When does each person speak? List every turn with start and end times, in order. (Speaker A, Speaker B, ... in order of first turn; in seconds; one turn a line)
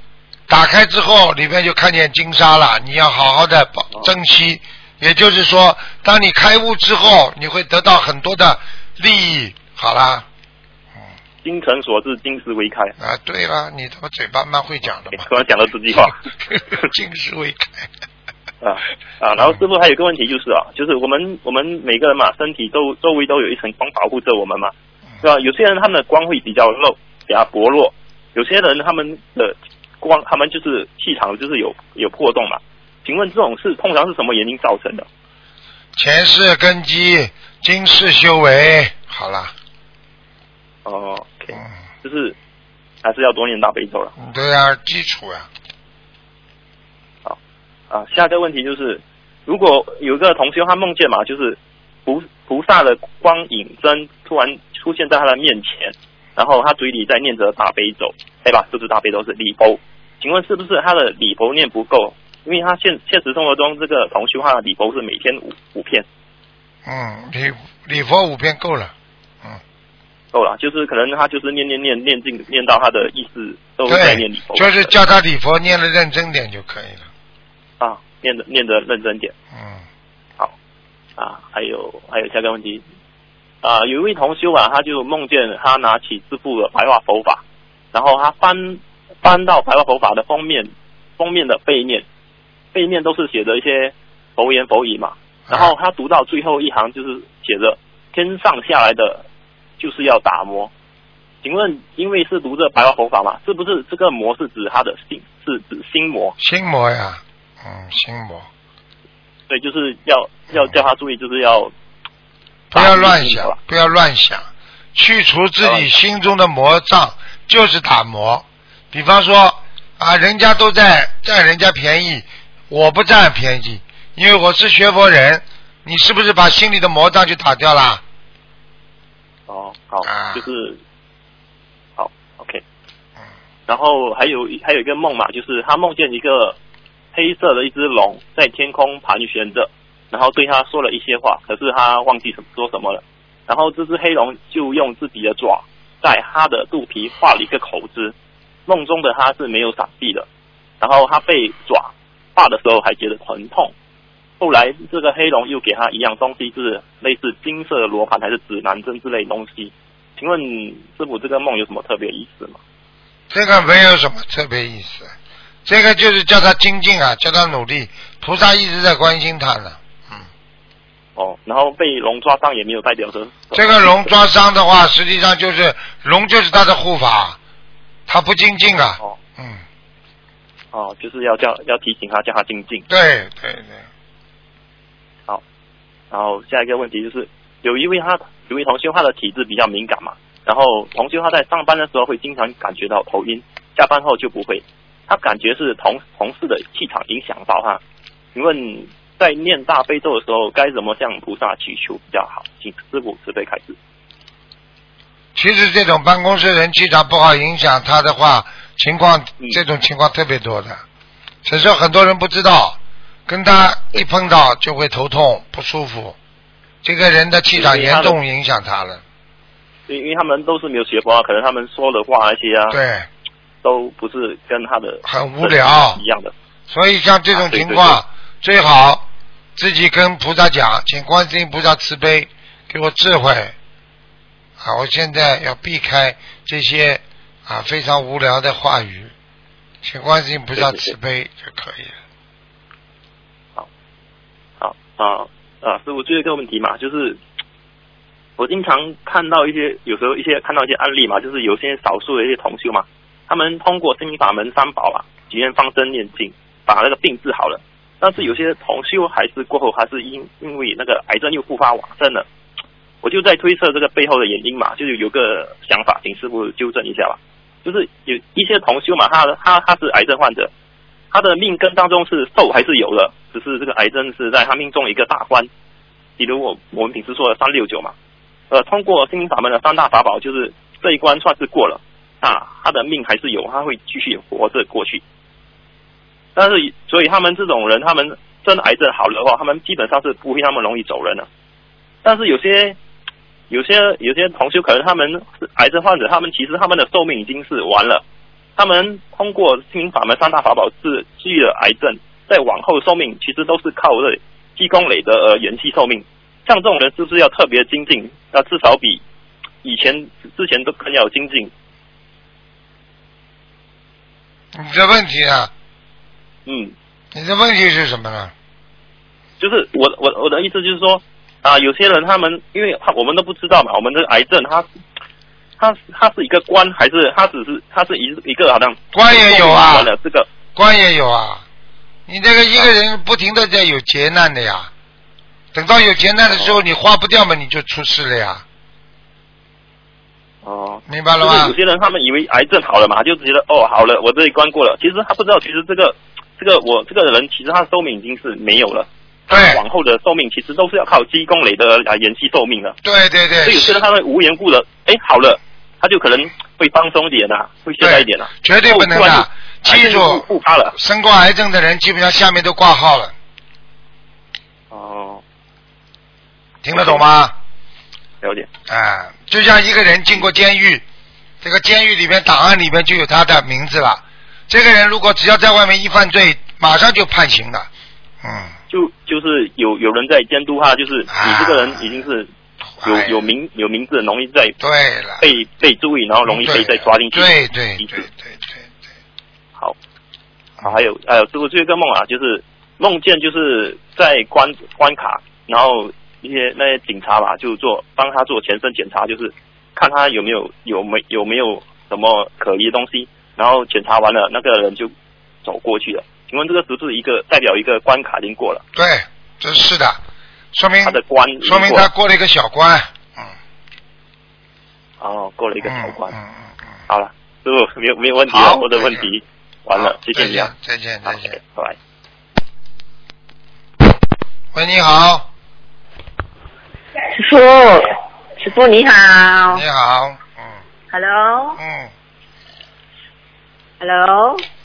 Speaker A: 0.5-10.2
Speaker B: 11.4-12.9
Speaker A: 13.0-15.2
Speaker B: 15.1-16.1
Speaker A: 16.5-17.9
Speaker B: 18.6-35.0
Speaker A: 36.0-39.5
Speaker B: 40.8-42.4
Speaker B: 43.0-44.1
Speaker A: 44.2-45.5
Speaker B: 47.9-66.0
Speaker A: 66.8-68.9
Speaker B: 70.3-74.9
Speaker A: 73.9-77.1
Speaker B: 77.8-79.3
Speaker A: 79.5-79.8
Speaker B: 81.2-82.8
Speaker B: 83.6-92.0
Speaker B: 92.7-99.2
Speaker B: 99.8-100.7
Speaker B: 101.4-106.3
Speaker A: 106.4-108.5
Speaker B: 109.5-111.7
Speaker A: 112.7-128.0
Speaker B: 112.7-113.5
Speaker B: 115.6-115.9
Speaker B: 129.5-130.8
Speaker A: 130.0-130.4
Speaker B: 132.0-132.6
Speaker B: 133.7-136.6
Speaker B: 137.1-148.1
Speaker B: 148.7-150.3
Speaker B: 150.8-153.7
Speaker B: 154.4-162.6
Speaker A: 163.3-165.1
Speaker A: 165.7-170.2
Speaker B: 171.2-173.9
Speaker A: 173.5-177.4
Speaker A: 178.1-179.6
Speaker B: 180.7-182.8
Speaker A: 182.9-183.8
Speaker B: 186.1-197.8
Speaker B: 198.3-203.8
Speaker A: 205.3-210.8
Speaker A: 211.4-216.2
Speaker A: 216.8-219.0
Speaker B: 217.6-218.2
Speaker B: 219.9-222.8
Speaker A: 222.7-223.1
Speaker B: 223.6-226.3
Speaker A: 225.0-226.0
Speaker A: 226.7-233.5
Speaker B: 227.3-228.0
Speaker A: 234.6-239.1
Speaker A: 239.8-241.9
Speaker B: 240.6-240.8
Speaker B: 244.6-247.2
Speaker B: 248.4-262.2
Speaker B: 263.0-270.5
Speaker B: 271.1-275.5
Speaker B: 276.2-277.9
Speaker B: 278.5-285.0
Speaker B: 286.4-291.3
Speaker B: 292.0-292.8
Speaker B: 293.5-298.0
Speaker B: 298.6-309.0
Speaker B: 309.6-311.5
Speaker A: 314.5-315.5
Speaker B: 316.4-316.7
Speaker A: 317.1-318.3
Speaker B: 319.4-324.6
Speaker B: 325.6-330.3
Speaker A: 328.9-329.9
Speaker A: 330.5-331.4
Speaker A: 332.1-334.7
Speaker A: 335.5-338.4
Speaker B: 336.3-336.6
Speaker B: 340.4-352.8
Speaker A: 340.9-341.5
Speaker A: 349.3-349.6
Speaker A: 352.8-353.8
Speaker B: 353.4-360.7
Speaker A: 357.8-363.1
Speaker B: 364.7-365.2
Speaker A: 366.6-367.3
Speaker B: 366.7-367.0
Speaker B: 368.2-368.5
Speaker A: 368.7-370.8
Speaker A: 371.4-377.7
Speaker A: 378.2-378.5
Speaker B: 378.7-382.3
Speaker A: 381.1-381.9
Speaker A: 382.8-383.3
Speaker B: 382.8-384.6
Speaker A: 384.6-385.2
Speaker B: 385.2-388.0
Speaker A: 386.2-388.7
Speaker B: 390.6-404.9
Speaker B: 405.4-408.6
Speaker A: 408.7-410.0
Speaker A: 410.5-413.3
Speaker B: 410.8-411.9
Speaker B: 415.0-416.1
Speaker A: 415.6-416.4
Speaker B: 416.9-420.5
Speaker A: 418.3-419.1
Speaker A: 419.7-421.4
Speaker B: 421.1-421.8
Speaker A: 424.5-425.3
Speaker C: 427.1-429.6
Speaker A: 429.5-430.5
Speaker C: 430.9-431.6
Speaker A: 431.6-431.9
Speaker C: 433.8-434.4